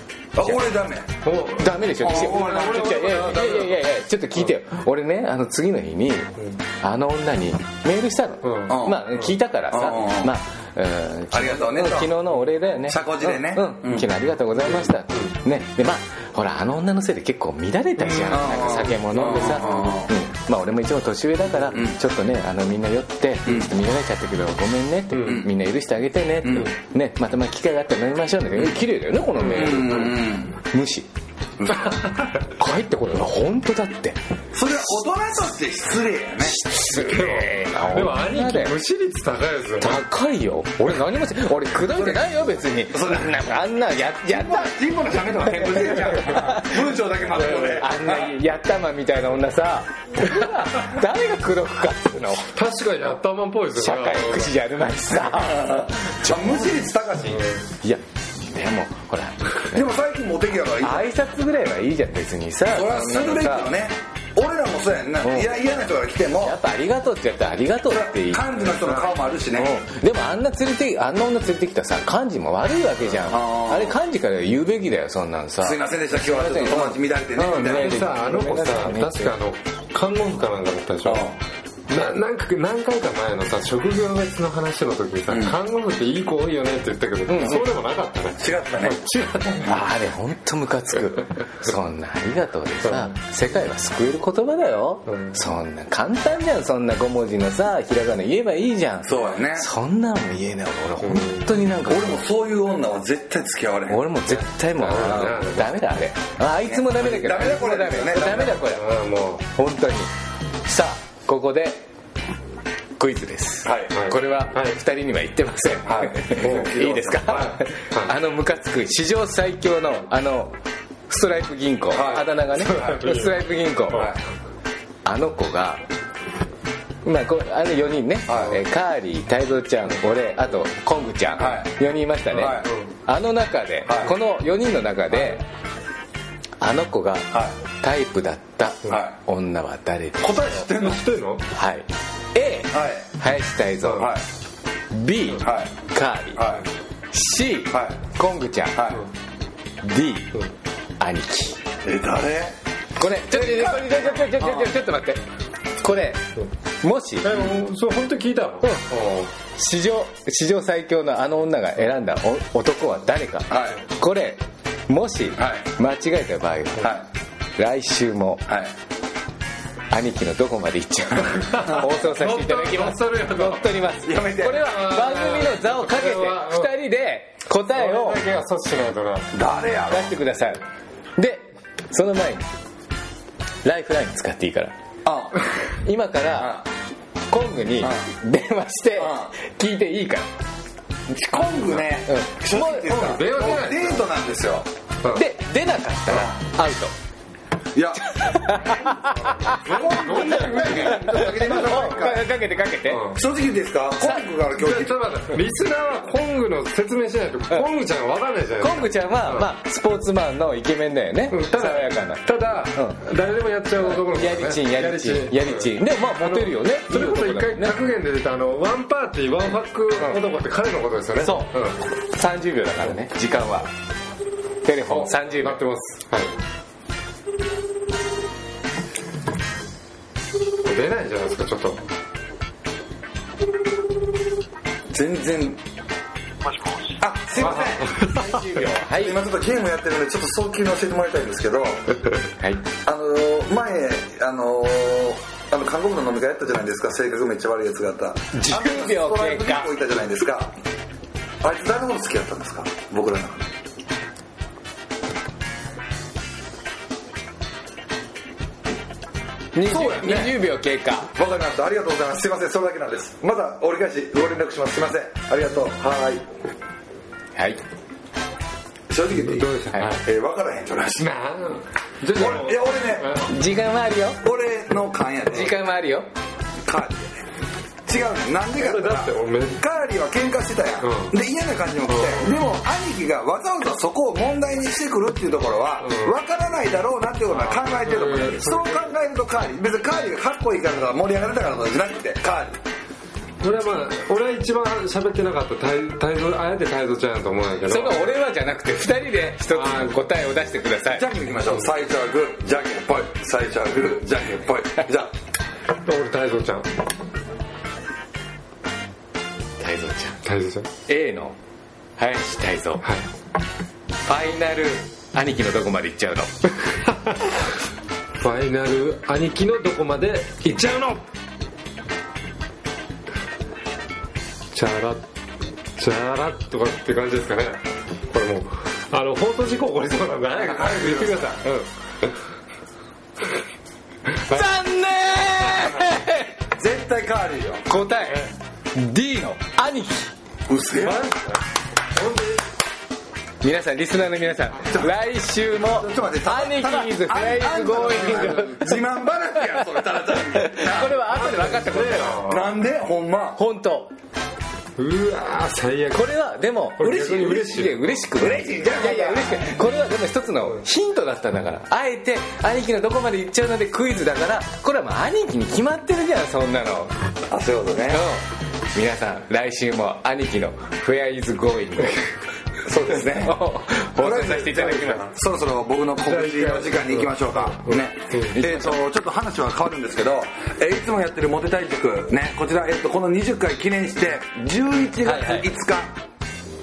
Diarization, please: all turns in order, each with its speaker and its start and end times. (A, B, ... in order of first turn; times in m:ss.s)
0:00.4-0:01.2 A
0:01.2-0:03.8 B
0:01.6-0:31.1 C
0:02.0-0:03.0 A
0:08.4-0:09.2 B
0:08.7-0:09.1 A
0:09.7-0:10.3 A
0:11.3-0:12.2 A
0:12.8-0:14.1 A
0:14.6-0:15.3 B
0:18.1-0:20.0 B
0:18.2-0:20.1 A
0:25.1-0:25.4 B
0:25.2-0:25.5 A
0:26.4-0:26.7 A
0:29.4-0:29.9 B
0:29.4-0:30.6 A
0:31.6-0:32.1 A
0:32.4-0:34.2 C
0:34.5-0:36.6 A
0:36.4-0:38.8 C
0:36.9-0:40.0 B
0:39.8-0:44.7 C
0:41.9-0:42.2 A
0:42.9-0:43.4 A
0:44.3-0:48.3 A
0:45.7-0:46.8 C
0:47.3-0:47.8 B
0:47.7-0:52.5 C
0:52.6-0:54.6 B
0:53.8-0:56.8 C
0:55.2-0:57.6 A
0:57.8-0:59.8 C
0:59.7-1:01.1 A
1:00.8-1:03.7 C
1:02.7-1:06.6 A
1:05.2-1:05.5 C
1:06.4-1:08.6 C
1:07.9-1:09.8 A
1:08.7-1:09.1 B
1:09.6-1:19.4 C
1:13.3-1:14.0 A
1:15.6-1:18.0 A
1:17.6-1:21.3 B
1:21.0-1:21.4 A
1:21.9-1:29.8 B
1:25.3-1:25.6 A
1:27.3-1:27.7 C
1:28.4-1:29.0 A
1:29.6-1:42.2 C
1:39.0-1:39.7 A
1:41.0-1:41.4 B
1:41.9-1:44.1 A
1:43.9-1:48.9 C
1:44.8-1:45.8 B
1:45.0-1:45.4 A
1:46.6-1:48.6 A
1:48.3-1:49.4 B
1:49.5-1:50.1 C
1:50.6-1:51.8 C
1:53.0-2:00.6 C
1:53.6-1:53.9 A
1:53.9-1:54.8 B
1:55.9-1:57.6 A
1:56.3-1:58.2 B
2:01.1-2:04.1 C
2:01.9-2:03.0 A
2:02.2-2:03.4 B
2:03.9-2:04.2 A
2:05.0-2:05.8 C
2:07.0-2:15.4 C
2:08.3-2:08.6 A
2:11.4-2:11.7 A
2:12.3-2:12.7 A
2:12.4-2:12.9 B
2:13.9-2:14.1 A
2:16.6-2:20.6 C
2:18.9-2:19.2 A
2:20.2-2:21.0 A
2:20.7-2:21.5 B
2:21.5-2:24.2 C
2:22.7-2:23.1 A
2:23.9-2:24.2 A
2:24.9-2:26.5 C
2:25.4-2:25.7 A
2:26.4-2:26.6 A
2:27.1-2:29.0 C
2:27.7-2:28.0 A
2:28.8-2:29.0 A
2:29.8-2:30.4 C
2:31.0-2:31.6 C
2:31.8-2:32.6 A
2:33.0-2:35.2 C
2:33.3-2:34.7 A
2:35.8-2:36.2 C
2:36.8-2:37.4 C
2:37.2-2:39.3 B
2:39.4-2:47.0 C
2:43.5-2:43.8 A
2:45.4-2:45.7 A
2:46.8-2:47.1 A
2:47.6-2:48.4 C
2:48.5-2:48.7 A
2:49.9-2:58.2 C
2:51.4-2:53.7 B
2:54.0-2:54.7 A
2:54.5-2:56.7 B
2:57.7-2:59.3 B
2:59.3-3:00.1 A
2:59.9-3:00.6 C
3:01.2-3:02.5 C
3:03.6-3:04.7 C
3:05.0-3:05.4 A
3:05.8-3:06.6 C
3:06.4-3:06.6 A
3:07.3-3:10.3 C
3:07.8-3:08.1 A
3:09.0-3:09.3 A
3:11.1-3:14.7 A
3:12.1-3:13.0 C
3:12.8-3:14.0 B
3:15.1-3:16.9 C
3:17.8-3:18.4 A
3:18.0-3:23.1 C
3:19.5-3:21.8 B
3:19.7-3:22.2 A
3:22.9-3:23.2 B
3:23.1-3:25.0 A
3:24.6-3:29.5 B
3:28.6-3:33.0 C
3:31.3-3:41.8 B
3:33.8-3:37.8 C
3:41.2-3:43.7 C
3:44.6-3:45.6 C
3:44.9-3:46.3 B
3:50.6-3:51.8 B
3:54.9-3:55.6 A
3:57.0-3:58.2 A
3:57.4-3:58.4 B
3:58.0-3:59.2 C
3:58.9-4:01.8 A
4:02.4-4:02.6 C
4:02.8-4:10.5 A
4:08.3-4:09.7 C
4:11.4-4:13.5 A
4:19.6-4:21.1 C
4:19.7-4:20.4 A
4:21.2-4:26.2 A
4:27.4-4:27.6 C
4:28.9-4:31.1 A
4:29.1-4:30.0 B
4:31.0-4:33.3 B
4:32.1-4:33.2 A
4:33.2-4:34.2 C
4:34.2-4:35.5 A
4:35.3-4:36.1 C
4:36.6-4:37.3 A
4:37.9-4:52.6 A
4:38.6-4:39.6 B
4:40.8-4:41.1 B
4:41.9-4:42.4 B
4:45.8-4:46.1 B
4:47.3-4:48.9 B
4:53.4-4:58.2 B
4:57.7-5:01.1 C
4:59.5-5:00.0 B
5:00.9-5:05.1 A
5:05.8-5:06.7 B
5:09.6-5:10.2 C
5:10.2-5:10.7 B
5:10.9-5:11.4 C
5:12.0-5:12.9 C
5:14.1-5:16.3 C
5:18.2-5:21.0 B
5:24.5-5:25.0 B
5:25.8-5:31.7 B
5:30.4-5:31.3 A
5:34.2-5:34.5 B
5:34.3-5:36.4 C
5:36.6-5:37.7 A
5:37.7-5:40.1 C
5:40.5-5:41.1 A
5:40.8-5:41.4 B
5:41.9-5:42.4 B
5:43.4-5:48.8 C
5:45.6-5:51.0 A
5:48.1-5:48.4 B
5:50.1-5:52.2 C
5:50.8-5:52.5 B
5:52.2-5:53.4 A
5:53.4-5:53.9 C
5:54.8-5:56.1 B
5:55.9-6:07.0 C
5:56.8-5:57.9 B
5:58.2-5:59.6 A
6:07.3-6:08.0 A
6:07.9-6:12.1 C
6:12.6-6:13.4 A
6:12.9-6:15.1 C
6:14.0-6:25.9 A
6:16.0-6:18.3 B
6:18.3-6:18.8 C
6:25.0-6:25.5 C